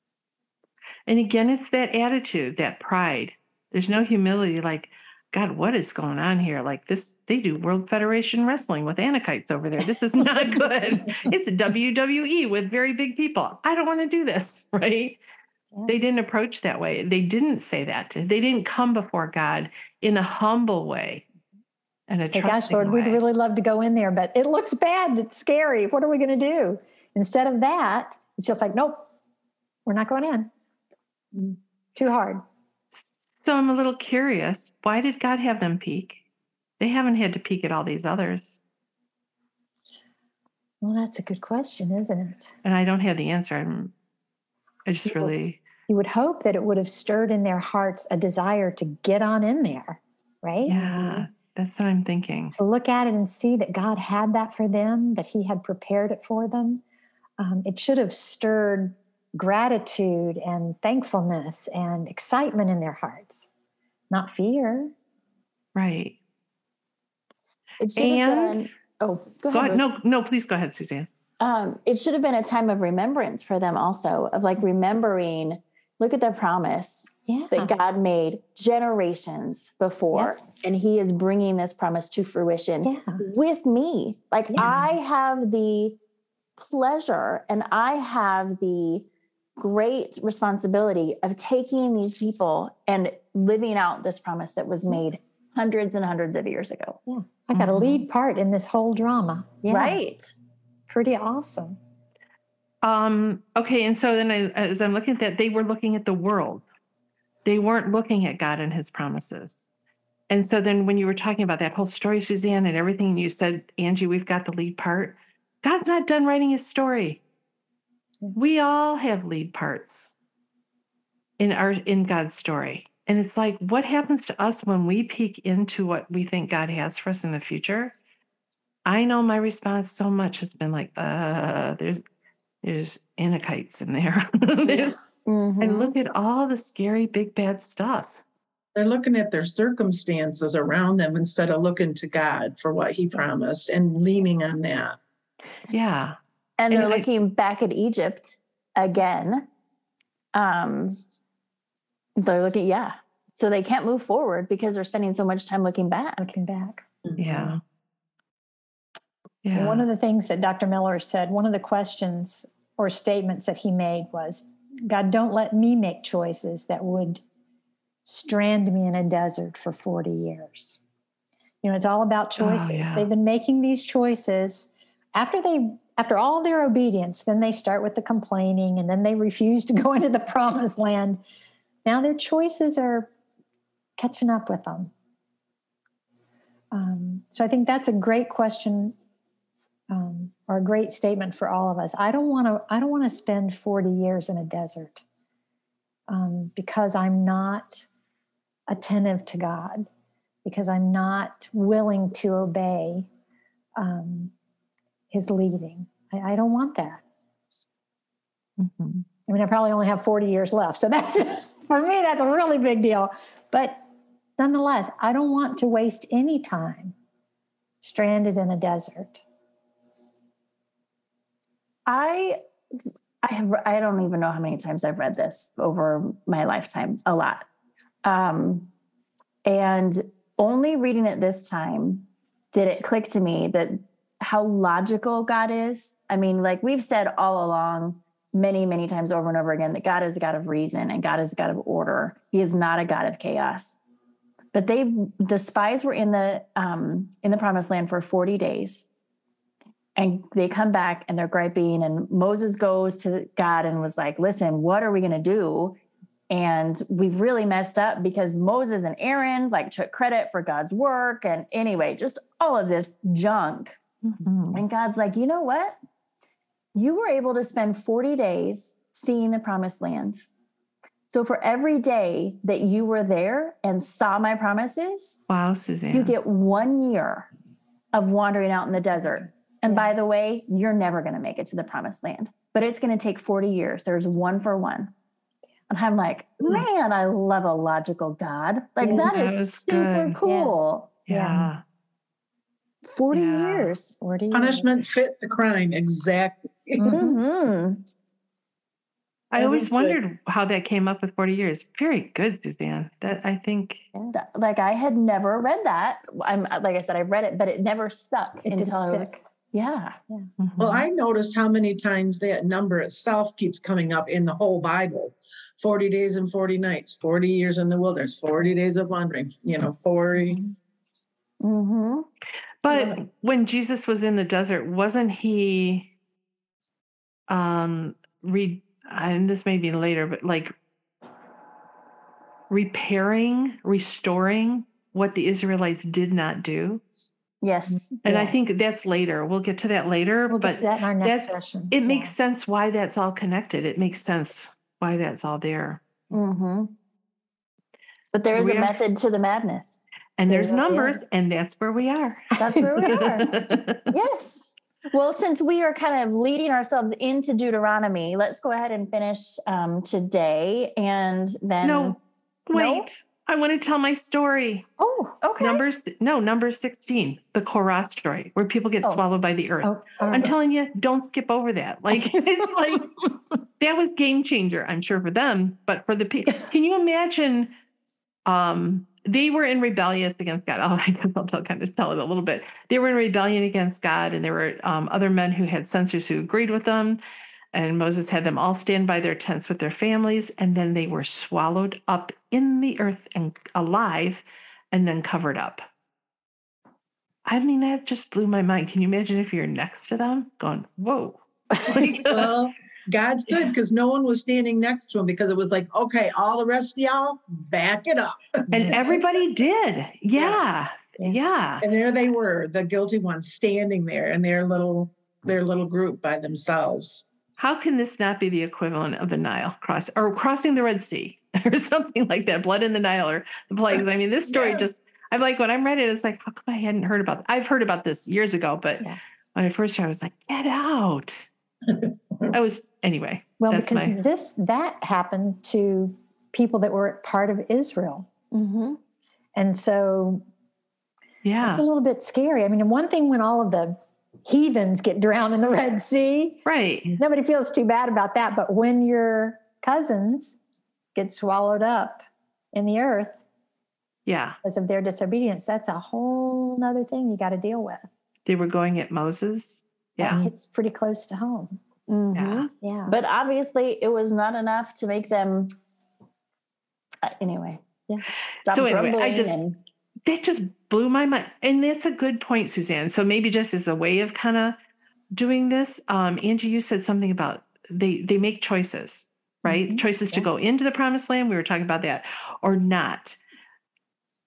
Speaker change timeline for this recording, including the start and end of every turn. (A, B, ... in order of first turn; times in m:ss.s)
0:01.1-0:15.2 A
0:15.8-0:21.2 A
0:22.1-0:23.2 A
0:22.3-0:29.0 B
0:29.8-0:30.5 B
0:31.9-0:32.4 B
0:32.9-0:36.2 A
0:36.8-0:38.6 A
0:40.8-0:42.5 B
0:42.6-0:43.9 A
0:44.8-0:45.6 A
0:45.0-0:45.3 B
0:45.9-0:51.3 B
0:50.6-0:52.6 A
0:52.5-0:56.8 B
0:57.4-1:03.5 B
1:04.1-1:04.9 B
1:05.7-1:06.2 A
1:07.8-1:09.8 C
1:08.0-1:08.7 A
1:09.5-1:11.1 A
1:11.4-1:26.0 C
1:17.3-1:17.7 B
1:22.8-1:23.2 B
1:24.5-1:24.8 B
1:26.6-1:37.0 C
1:37.1-1:40.0 B
1:37.5-1:38.0 A
1:39.7-1:40.3 C
1:40.9-1:41.8 B
1:42.8-1:46.6 A
1:47.4-1:49.6 A
1:50.3-1:57.2 A
1:58.3-2:00.1 A
2:01.4-2:07.9 A
2:08.8-2:12.0 A
2:12.6-2:15.0 A
2:14.7-2:15.9 C
2:15.6-2:18.2 A
2:18.7-2:25.0 D
2:25.7-2:26.2 A
2:26.6-2:29.5 C
2:26.7-2:27.0 A
2:30.3-2:31.0 C
2:32.2-2:36.3 C
2:36.2-2:36.8 B
2:37.1-2:37.5 D
2:37.2-2:37.6 A
2:39.4-2:39.9 A
2:39.5-2:47.2 B
2:48.0-2:50.8 B
2:51.6-3:01.2 B
2:52.4-2:53.1 A
3:01.8-3:03.1 B
3:04.0-3:04.9 B
3:06.7-3:09.0 B
3:09.9-3:15.0 B
3:16.1-3:17.9 B
3:18.7-3:19.9 B
3:20.4-3:23.1 B
3:23.8-3:24.3 B
3:25.1-3:27.0 B
3:28.6-3:29.0 A
3:29.3-3:33.8 B
3:34.4-3:36.9 B
3:37.8-3:39.2 B
3:41.9-3:42.4 C
3:43.2-3:47.4 C
3:48.0-3:48.7 C
3:49.4-4:03.8 C
4:04.5-4:08.9 C
4:10.0-4:15.8 C
4:16.3-4:23.8 C
4:24.0-4:24.6 A
4:24.5-4:25.8 C
4:26.7-4:30.3 C
4:31.1-4:35.2 C
4:35.3-4:36.1 A
4:35.9-4:37.3 C
4:37.9-4:44.9 C
4:45.7-4:50.9 C
4:48.8-4:49.1 B
4:48.8-4:50.2 A
4:50.2-4:50.6 B
4:51.1-4:51.6 A
4:51.1-4:51.5 B
4:52.8-4:53.9 C
4:53.1-4:53.7 A
4:53.6-4:54.7 B
4:54.3-4:57.0 D
4:56.8-4:57.2 B
4:56.8-4:57.8 C
4:59.3-5:03.8 A
4:59.4-5:00.0 D
5:04.1-5:10.0 C
5:08.4-5:09.2 B
5:10.4-5:10.9 A
5:10.6-5:20.4 D
5:21.4-5:22.1 C
5:22.6-5:25.9 A
5:27.3-5:30.5 A
5:32.5-5:36.8 A
5:37.4-5:38.6 C
5:38.0-5:45.8 A
5:40.3-5:42.1 B
5:46.1-5:46.7 C
5:48.1-5:49.8 C
5:48.3-5:48.7 A
5:50.2-5:53.8 A
5:50.3-5:51.0 B
5:52.4-5:53.3 C
5:52.5-5:53.3 B
5:53.9-6:02.0 C
6:01.6-6:02.0 A
6:02.5-6:04.7 A
6:02.5-6:02.9 C
6:04.8-6:05.2 B
6:05.2-6:05.6 C
6:05.4-6:17.5 A
6:09.6-6:10.3 B
6:18.2-6:27.0 A
6:27.5-6:35.6 A
6:37.2-6:42.3 A
6:41.5-6:41.8 B
6:41.6-6:49.0 D
6:48.5-6:51.6 A
6:50.2-6:50.5 D
6:51.6-6:57.0 D
6:57.4-7:11.3 A
7:04.3-7:04.6 D
7:12.3-7:13.9 A
7:13.4-7:18.1 B
7:18.3-7:18.8 C
7:19.3-7:20.2 B
7:21.2-7:21.6 A
7:21.4-7:26.4 B
7:26.4-7:27.0 A
7:27.0-7:30.4 B
7:30.9-7:33.2 B
7:34.0-7:34.4 A
7:34.4-7:37.9 B
7:38.2-7:40.2 A
7:40.0-7:41.6 B
7:41.9-7:45.5 C
7:42.1-7:42.5 A
7:42.6-7:42.9 B
7:47.0-7:47.6 C
7:48.4-7:49.6 C
7:48.5-7:49.4 A
7:50.0-7:54.6 A
7:55.1-8:03.2 A
7:59.4-8:00.3 B